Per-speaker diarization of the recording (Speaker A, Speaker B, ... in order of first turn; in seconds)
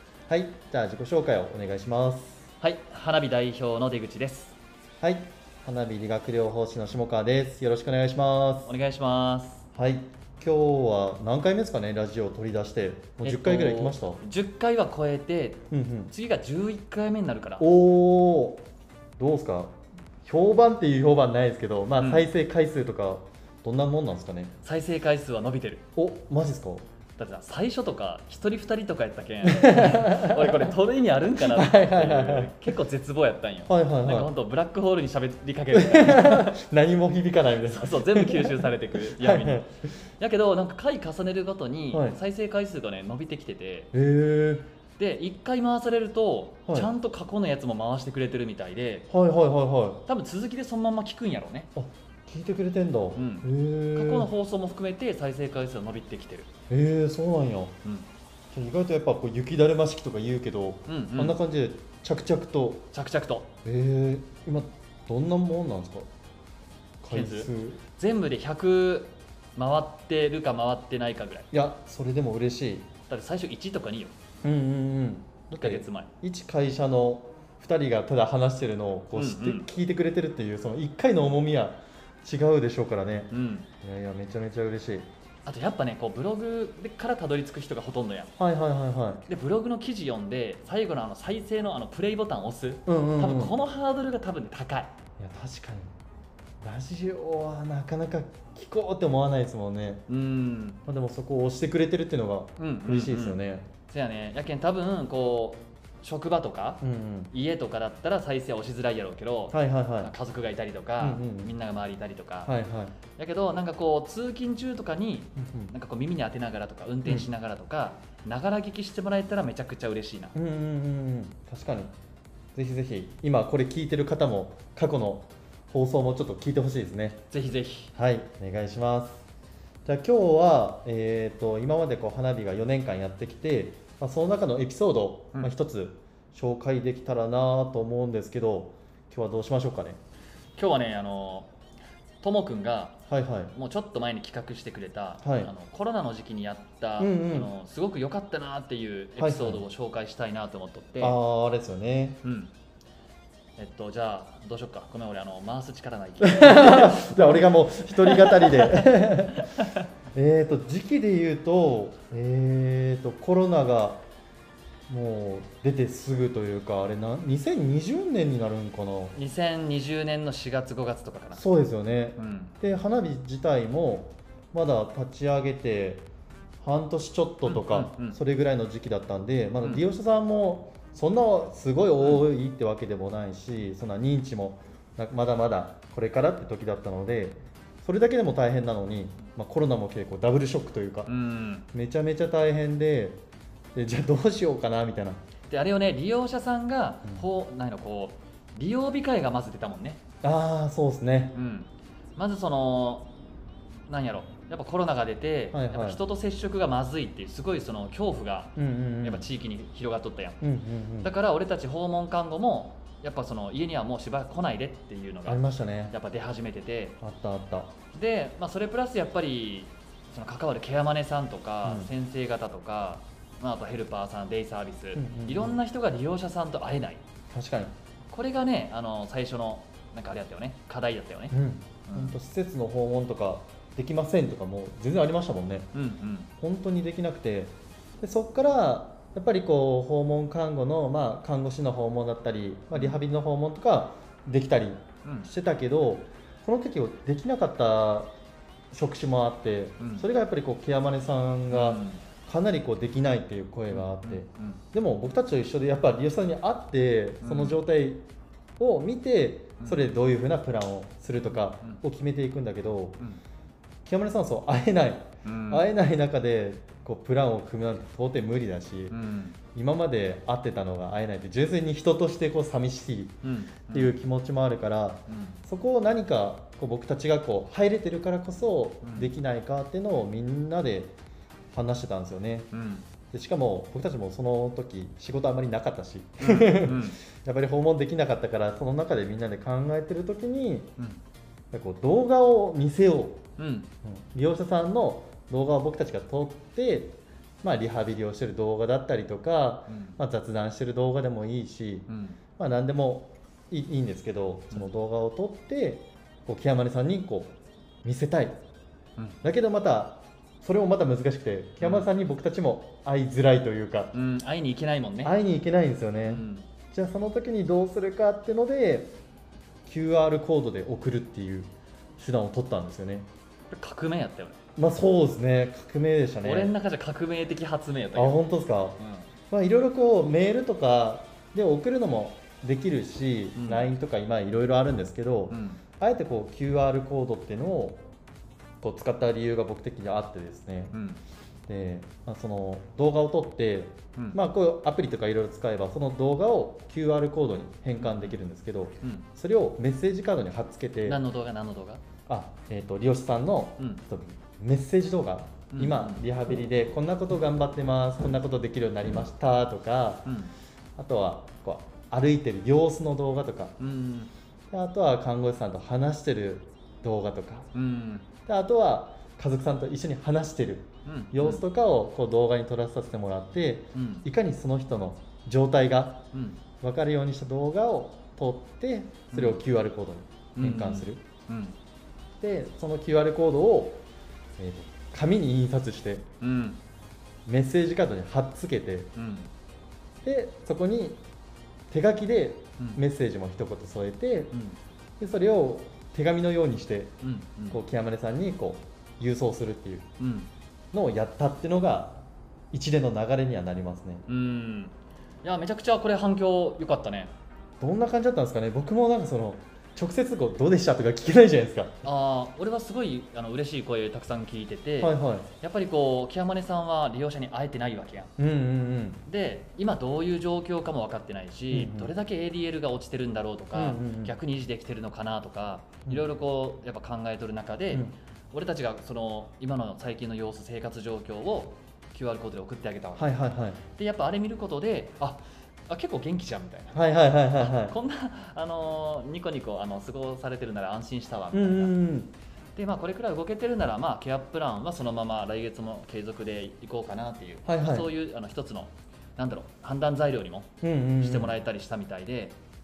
Speaker A: 0.3-2.5, 5.0-8.7, 9.8-14.2, 15.7-16.1, 17.6-18.6, 19.2-24.5, 26.0-26.9, 29.4-30.7, 31.4-32.5, 33.7-34.3, 35.7-39.7, 41.9-42.2, 43.9-44.7, 49.1-50.0, 51.8-54.3, 56.7-57.8, 58.5-62.9, 63.6-66.1, 67.0-67.8, 71.5-72.9, 74.4-85.1, 88.4-89.2, 92.9-93.6, 95.2-95.9, 96.6-100.0, 100.9-103.7, 106.8-107.3, 109.5-110.1, 111.0-111.5, 112.5-113.0, 115.4-115.7, 120.3-121.9, 122.5-127.2, 128.0-129.2, 129.8-140.0, 143.1-143.5, 145.2-145.5, 147.0-147.5, 149.2-149.6, 151.0-152.2, 156.2-159.5, 160.1-164.0, 164.9-169.2, 171.3-176.1, 176.6-191.1, 191.7-193.2, 193.8-195.2, 200.2-201.3, 205.5-206.0, 208.6-209.3, 210.4-211.1, 215.3-215.9, 217.0-217.7, 221.6-221.9, 224.9-225.6, 227.3-227.7, 231.3-235.7, 236.4-248.1, 248.7-258.1, 258.6-263.0, 263.9-269.0, 269.6-273.2, 273.7-281.0, 281.5-282.5, 283.1-290.8, 291.5-293.2, 293.8-307.3, 307.8-308.4, 309.2-313.9, 315.0-318.9, 319.7-323.1, 324.6-326.5, 327.9-328.8, 329.3-337.8, 338.6-340.8, 341.5-351.0, 352.1-360.1, 360.8-363.6, 364.5-367.5, 368.3-376.0, 376.6-381.0, 382.2-383.8, 384.4-386.1, 387.3-388.9, 390.0-391.0, 391.7-394.4, 395.0-396.9, 397.5-399.9, 400.7-404.1, 407.6-411.8, 414.8-415.3, 418.2-419.0, 421.5-421.9, 423.5-424.1, 427.7-427.9, 433.0-433.6, 436.7-437.8, 441.3-442.1, 447.4-447.9, 450.6-451.4
Speaker B: 2.6-4.5, 8.7-9.6, 13.2-17.7, 22.0-22.3, 24.6-25.9, 27.2-36.6, 37.7-43.9, 45.0-49.1, 50.1-51.7, 53.1-56.5, 60.9-61.4, 62.9-63.5, 67.1-71.5, 73.1-74.1, 75.5-76.1, 79.2-79.7, 83.3-83.7, 85.5-88.3, 89.3-94.9, 100.1-100.8, 102.6-112.5, 113.2-120.4, 127.3-127.9, 140.6-141.5, 142.2-143.0, 143.5-151.2, 152.2-152.5, 153.6-159.8, 169.1-171.4, 172.2-172.6, 177.4-178.2, 191.1-191.7, 195.5-200.0, 201.3-203.1, 203.9-210.4, 211.0-217.0, 217.9-227.0, 228.1-231.3, 231.9-232.2, 235.7-236.3, 242.7-243.0, 245.0-245.3, 249.8-250.1, 251.5-252.0, 253.7-254.6, 257.2-257.6, 265.2-265.7, 268.9-269.4, 273.2-274.0, 275.1-275.4, 278.8-279.1, 282.5-282.9, 286.2-287.0, 293.4-293.7, 299.7-300.0, 301.9-302.2, 311.6-311.9, 313.9-315.1, 316.1-316.5, 323.5-324.4, 326.2-328.2, 328.8-329.1, 333.4-333.7, 335.3-335.6, 340.7-341.0, 347.8-348.2, 348.8-349.1, 350.9-351.8, 355.5-356.1, 360.1-360.3, 363.6-364.1, 367.5-368.1, 370.9-371.4, 373.7-374.1, 376.1-376.4, 379.1-379.4, 380.4-381.6, 386.2-386.6, 388.9-389.3, 394.3-394.6, 397.0-397.6, 400.0-400.3, 404.1-407.1, 411.8-418.1, 419.1-433.1, 433.8-441.7, 442.6-452.4